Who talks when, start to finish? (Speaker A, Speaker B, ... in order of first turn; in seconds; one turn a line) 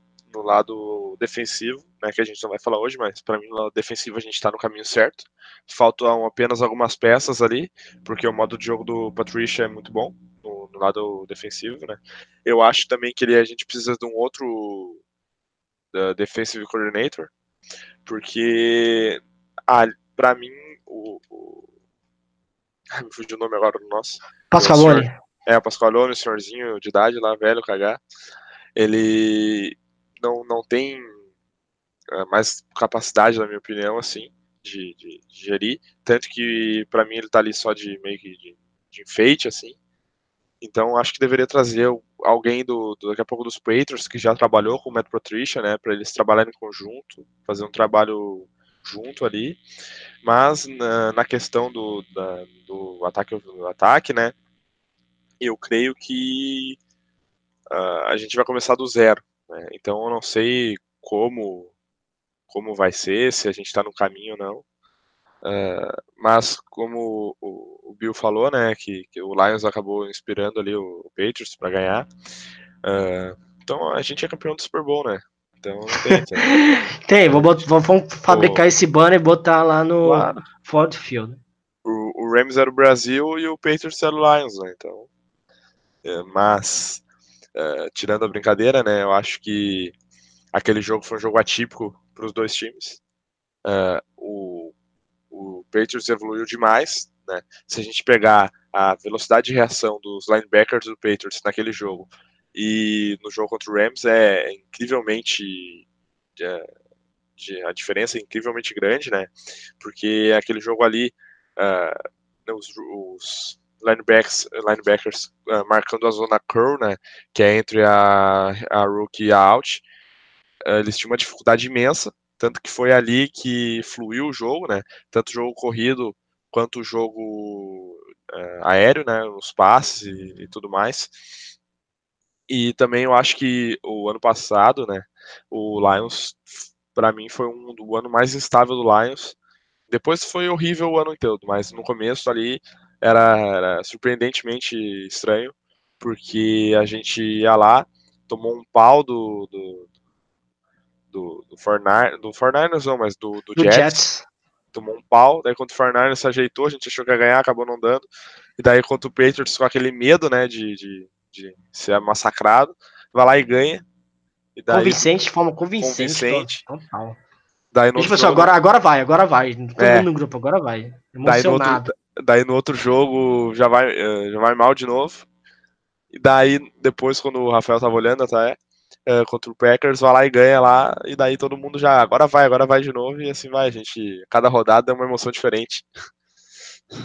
Speaker A: 0.3-15.0
Speaker A: 15.9-17.3
Speaker A: 18.1-21.6
Speaker A: 22.9-28.0
Speaker B: 24.5-25.1
Speaker A: 28.8-31.1
Speaker A: 32.1-39.7
Speaker A: 40.6-49.6
Speaker A: 50.2-54.3
Speaker A: 55.4-56.8
Speaker A: 57.7-61.7
Speaker A: 62.5-64.6
Speaker A: 65.4-72.1
Speaker A: 72.8-76.5
Speaker B: 76.1-81.4
Speaker A: 77.3-77.6
Speaker A: 78.3-78.6
Speaker A: 80.0-80.4
Speaker A: 81.8-85.1
Speaker A: 86.0-87.0
Speaker A: 87.5-89.9
Speaker A: 90.5-93.0
Speaker A: 93.6-94.7
Speaker A: 95.3-105.8
Speaker A: 106.4-106.7
Speaker A: 107.4-111.9
Speaker A: 112.5-119.8
Speaker A: 120.6-131.1
Speaker A: 132.5-139.3
Speaker A: 139.9-149.8
Speaker A: 151.1-154.0
Speaker B: 153.6-154.2
Speaker A: 154.7-158.0
Speaker A: 158.6-163.8
Speaker A: 164.6-165.1
Speaker B: 164.7-167.2
Speaker A: 165.8-166.6
Speaker A: 167.7-168.5
Speaker B: 167.9-171.9
Speaker A: 169.8-170.1
Speaker A: 171.2-175.2
Speaker A: 176.1-185.9